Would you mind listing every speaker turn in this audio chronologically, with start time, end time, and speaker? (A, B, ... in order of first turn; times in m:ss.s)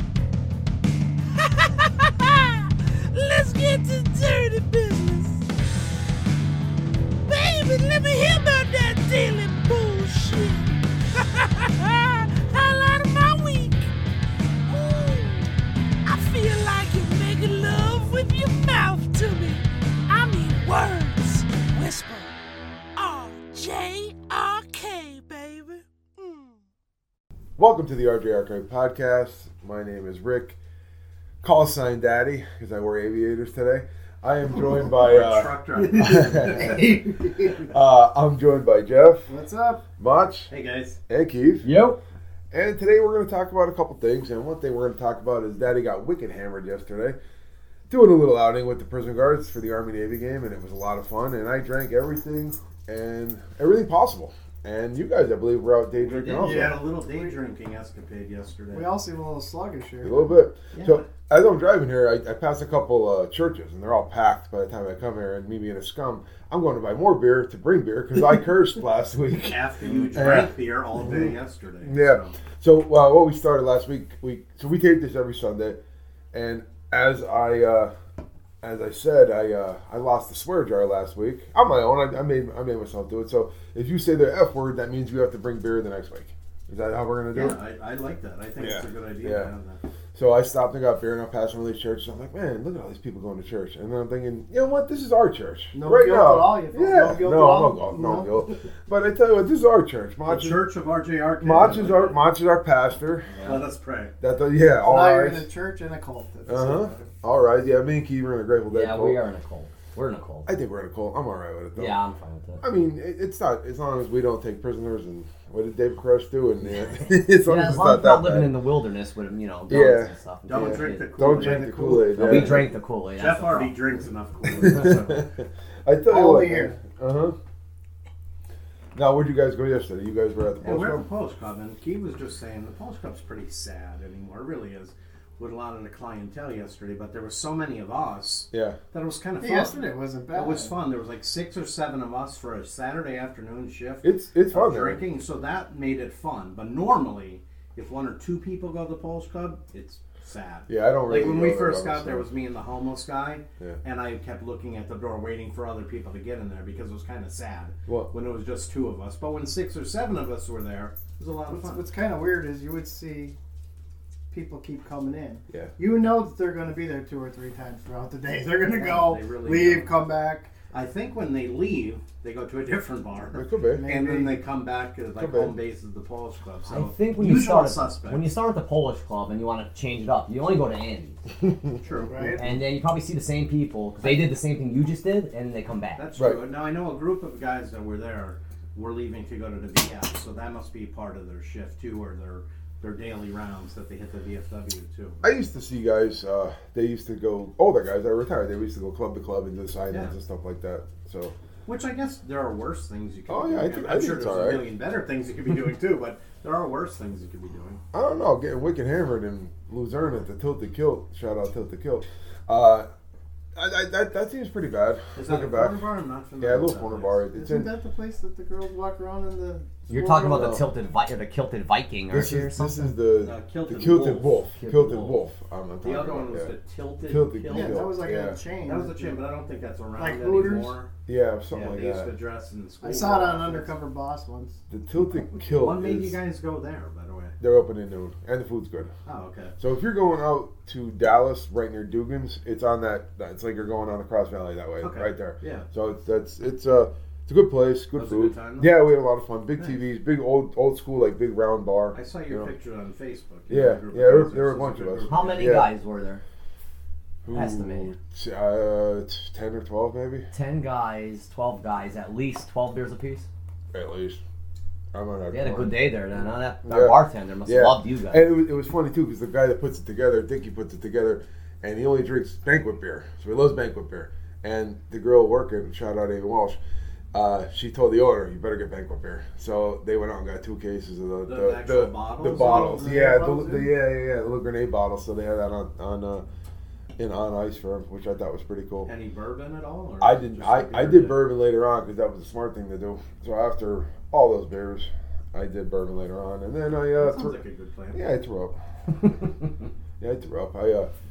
0:01.3-0:05.5 A
0:07.2-0:13.9 A
0:14.7-0:22.3 A
0:23.0-0:26.6 A
0:27.6-0:30.6 B
0:31.4-0:39.3 B
0:34.5-0:37.5 C
0:36.4-0:37.4 D
0:39.3-0:39.8 D
0:40.0-0:40.5 B
0:40.5-0:41.0 C
0:41.1-0:41.7 B
0:41.6-0:42.0 E
0:42.5-0:47.2 B
0:47.9-0:56.8 B
0:56.0-0:58.9 C
0:56.4-0:57.4 D
0:58.7-1:00.4 D
1:00.0-1:15.8 B
1:00.7-1:01.0 C
1:09.5-1:12.4 C
1:16.3-1:17.9 B
1:18.6-1:27.6 B
1:27.3-1:29.8 C
1:28.6-1:29.5 B
1:30.1-1:40.6 B
1:35.7-1:38.3 D
1:40.3-1:42.2 C
1:41.4-1:43.4 B
1:43.3-1:43.6 E
1:43.4-1:44.1 C
1:44.2-1:45.5 B
1:44.8-1:47.1 D
1:46.4-1:49.2 B
1:48.7-1:50.5 E
1:50.4-1:52.0 B
1:51.7-1:52.6 E
1:52.6-1:58.6 B
1:56.6-2:03.8 E
1:59.7-2:02.7 B
2:00.4-2:02.5 C
2:01.8-2:02.1 D
2:03.2-2:05.2 C
2:04.5-2:07.4 B
2:04.6-2:05.1 E
2:06.1-2:06.8 D
2:08.9-2:11.0 B
2:10.6-2:41.8 C
2:18.5-2:18.8 B
2:19.4-2:20.8 D
2:24.0-2:25.0 B
2:30.7-2:32.3 B
2:41.5-2:43.4 D
2:44.3-2:50.6 D
2:48.6-2:50.1 C
2:50.7-2:58.3 C
2:53.3-2:53.8 B
2:53.7-2:54.4 D
2:55.2-2:55.6 B
2:56.6-3:01.2 E
3:01.8-3:02.4 C
3:01.9-3:02.5 D
3:02.3-3:06.0 E
3:06.0-3:15.3 C
3:06.2-3:06.4 B
3:15.2-3:21.3 B
3:21.6-3:27.8 C
3:23.3-3:24.6 B
3:27.9-3:32.9 B
3:33.6-3:37.7 B
3:35.1-3:37.2 C
3:37.3-3:40.6 D
3:39.9-3:42.9 E
3:40.3-3:40.7 B
3:42.1-3:46.5 B
3:43.2-3:44.5 C
3:44.6-3:45.2 E
3:45.8-3:47.9 C
3:47.0-3:48.4 B
3:47.5-3:49.2 D
3:48.6-3:50.9 C
3:49.9-3:50.8 D
3:51.1-3:52.1 B
3:51.5-3:53.7 C
3:52.8-3:54.6 D
3:54.7-3:56.2 B
3:55.4-3:57.4 C
3:57.4-3:58.9 B
3:59.0-3:59.5 C
3:59.6-4:12.5 B
4:04.8-4:05.7 C
4:07.9-4:08.8 C
4:11.9-4:15.7 C
4:13.5-4:15.7 B
4:15.1-4:16.2 E
4:17.2-4:20.3 B
4:17.3-4:17.9 E
4:20.3-4:23.3 E
4:23.7-4:24.2 B
4:24.9-4:36.6 B
4:25.3-4:28.3 E
4:37.1-4:46.2 B
4:41.2-4:42.9 C
4:42.2-4:43.7 D
4:47.0-4:48.9 B
4:48.8-4:51.2 C
4:50.0-4:57.4 B
4:57.0-4:58.0 C
4:57.9-4:58.6 B
5:00.0-5:00.9 B